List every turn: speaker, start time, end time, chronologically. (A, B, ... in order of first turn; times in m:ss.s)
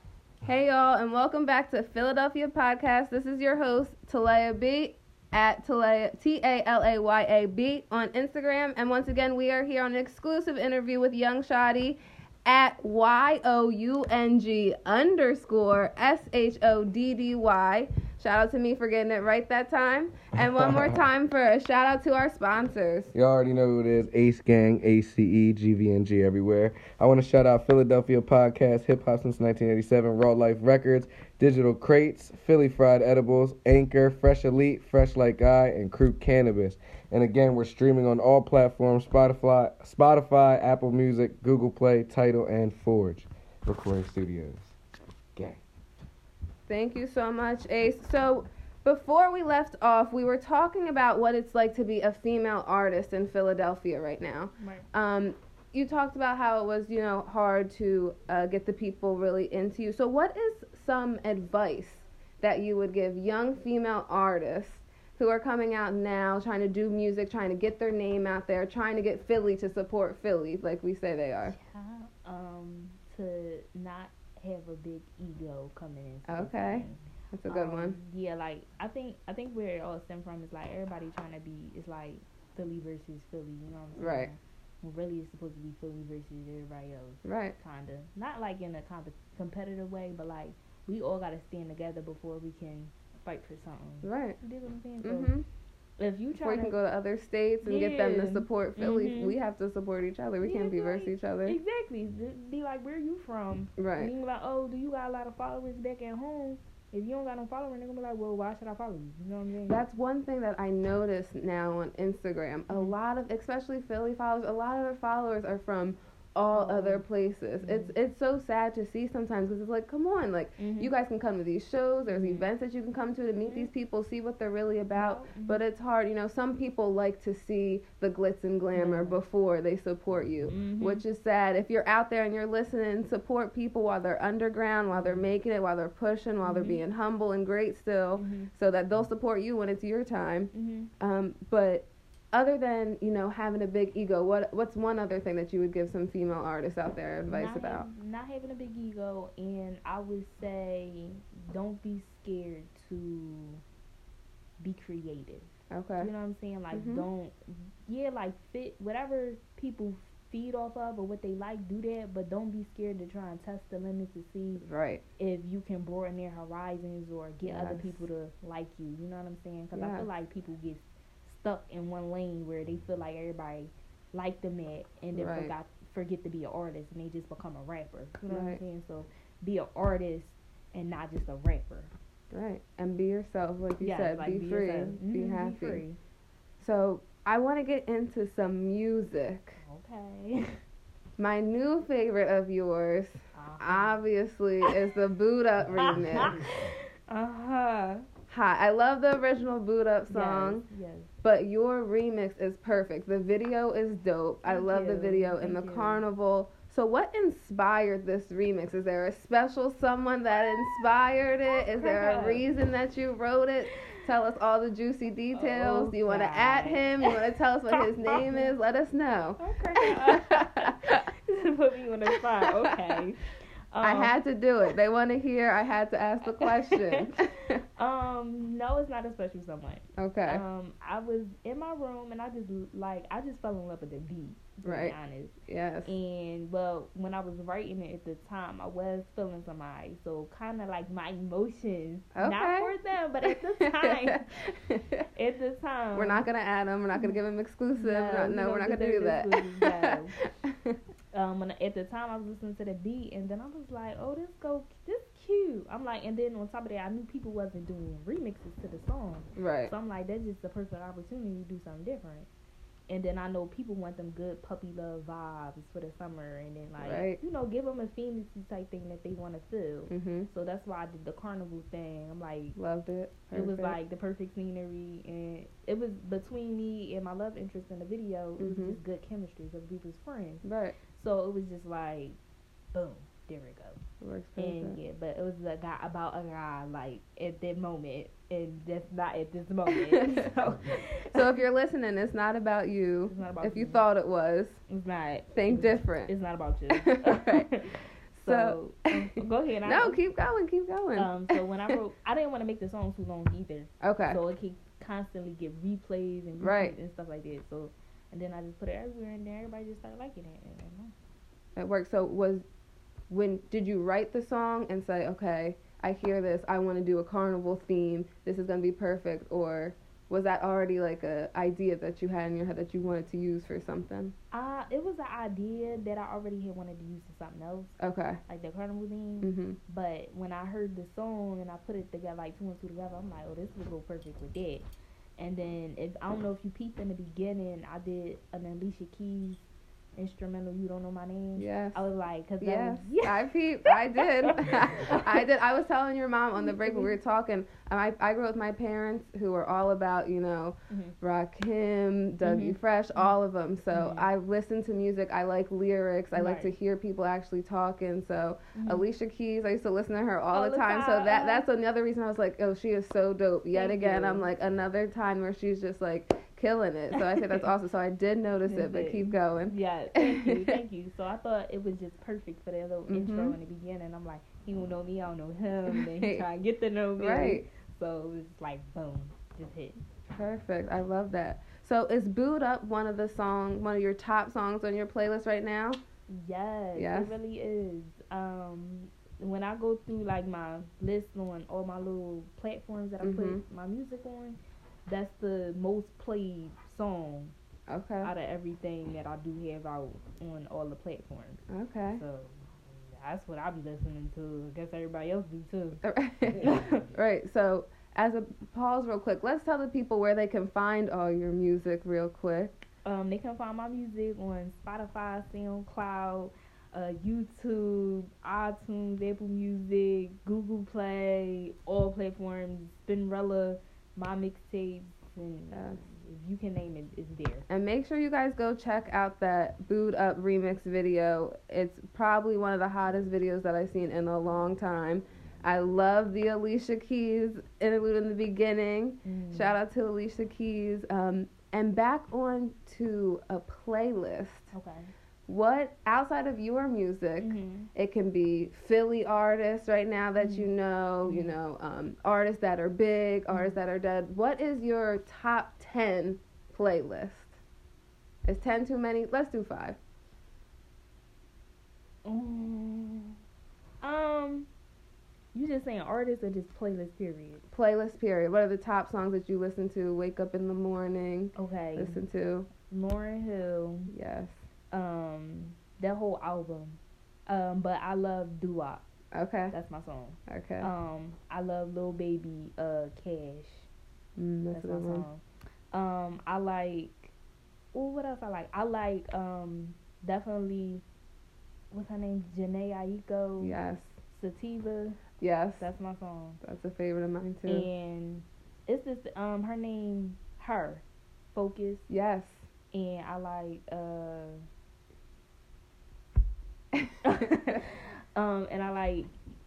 0:00.4-0:23.1 A
0:20.6-0:20.9 B
0:23.1-0:44.7 B
0:46.7-1:11.5 A
0:54.6-0:54.8 C
1:11.4-1:35.3 C
1:16.3-1:18.0 A
1:24.0-1:24.3 A
1:27.2-1:27.5 A
1:34.0-1:34.4 A
1:35.0-1:35.4 A
1:36.0-1:36.8 C
1:36.3-1:41.6 A
1:37.6-1:39.4 C
1:40.4-1:49.8 C
1:43.8-1:44.1 A
1:49.7-2:27.8 A
1:52.7-1:53.0 C
1:56.5-1:57.1 C
1:57.6-1:57.9 C
2:00.6-2:00.9 C
2:02.1-2:02.5 C
2:03.4-2:03.7 C
2:04.9-2:05.6 C
2:08.7-2:09.2 C
2:10.5-2:11.0 C
2:14.9-2:15.3 C
2:16.4-2:16.8 C
2:18.2-2:18.5 C
2:20.5-2:20.9 C
2:27.3-2:33.6 C
2:34.6-2:44.6 C
2:35.7-2:36.1 A
2:36.7-2:37.1 A
2:44.6-2:45.0 A
2:45.2-3:01.9 C
2:47.4-2:48.1 A
2:49.7-2:50.1 A
2:55.1-2:55.5 A
2:58.2-2:58.6 A
3:02.3-3:05.8 A
3:03.8-3:06.0 C
3:06.6-3:09.6 A
3:09.6-3:10.6 C
3:11.2-3:16.3 A
3:13.3-3:14.0 C
3:15.8-3:18.0 C
3:18.3-3:20.6 A
3:20.1-3:21.1 C
3:21.2-3:39.4 A
3:24.4-3:26.0 C
3:30.4-3:30.7 C
3:31.5-3:32.4 C
3:35.3-3:37.1 C
3:37.7-3:38.5 C
3:39.4-3:44.2 C
3:39.9-3:40.7 A
3:43.8-3:47.6 A
3:47.8-4:04.3 C
3:50.0-3:50.4 A
3:54.6-3:54.9 A
3:55.5-3:55.9 A
4:02.1-4:02.7 A
4:03.2-4:05.0 A
4:05.1-4:06.2 C
4:05.9-4:10.8 A
4:06.9-4:07.2 C
4:07.8-4:10.1 C
4:11.1-4:22.3 C
4:19.4-4:19.7 A
4:22.9-4:32.6 C
4:26.8-4:27.2 A
4:29.9-4:30.3 A
4:32.6-4:33.8 A
4:33.3-4:42.2 C
4:38.4-4:38.8 A
4:40.4-4:40.8 A
4:42.7-4:43.8 C
4:44.0-4:44.8 A
4:44.4-4:51.3 C
4:49.7-4:50.2 A
4:51.1-4:54.6 A
4:53.1-4:53.8 C
4:54.7-5:00.0 C
4:55.3-4:56.1 A
4:56.7-4:57.4 A
4:58.2-4:59.0 A
4:59.6-5:01.7 A
5:01.0-5:10.9 C
5:03.8-5:04.2 A
5:06.4-5:06.7 A
5:11.6-5:12.4 A
5:13.1-5:24.1 A
5:24.3-5:34.6 C
5:27.8-5:28.2 A
5:29.2-5:29.6 A
5:35.2-5:39.4 C
5:40.0-5:45.0 C
5:41.4-5:41.8 A
5:42.4-6:10.6 A
5:46.4-5:47.0 C
5:50.7-5:50.9 C
5:52.2-5:53.2 C
5:53.7-5:54.1 C
5:56.1-5:56.6 C
5:58.5-5:58.9 C
6:00.3-6:01.5 C
6:03.5-6:04.3 C
6:07.0-6:07.5 C
6:08.4-6:19.8 C
6:12.9-6:13.4 A
6:15.7-6:16.3 A
6:17.0-6:17.4 A
6:20.1-6:25.8 A
6:26.1-6:37.3 C
6:26.7-6:27.1 A
6:33.0-6:33.4 A
6:37.7-6:38.1 A
6:38.0-6:41.4 C
6:41.5-6:42.0 A
6:41.9-6:45.8 C
6:45.8-6:52.6 A
6:46.4-6:46.8 C
6:52.8-7:07.4 C
7:05.5-7:05.8 A
7:07.5-7:24.5 A
7:19.0-7:19.6 C
7:24.5-7:24.9 C
7:25.3-7:37.3 A
7:27.2-7:27.7 C
7:30.2-7:30.5 C
7:31.0-7:31.4 C
7:33.3-7:33.6 C
7:38.2-7:39.8 A
7:42.0-7:43.2 C
7:43.8-7:44.5 C
7:45.3-7:47.4 C
7:47.5-7:52.5 A
7:51.4-7:52.0 C
7:52.6-7:53.9 C
7:53.9-7:54.4 A
7:54.7-7:58.8 C
7:59.1-7:59.5 A
7:59.5-8:03.7 C
8:00.3-8:00.7 A
8:04.2-8:05.1 A
8:04.5-8:07.1 C
8:07.7-8:10.8 C
8:11.7-8:13.6 C
8:13.4-8:14.0 A
8:14.1-8:15.0 C
8:15.2-8:15.7 A
8:15.6-8:16.4 C
8:16.4-8:17.7 A
8:17.5-8:21.8 C
8:21.9-8:22.5 A
8:22.7-8:24.4 C
8:27.0-8:29.1 C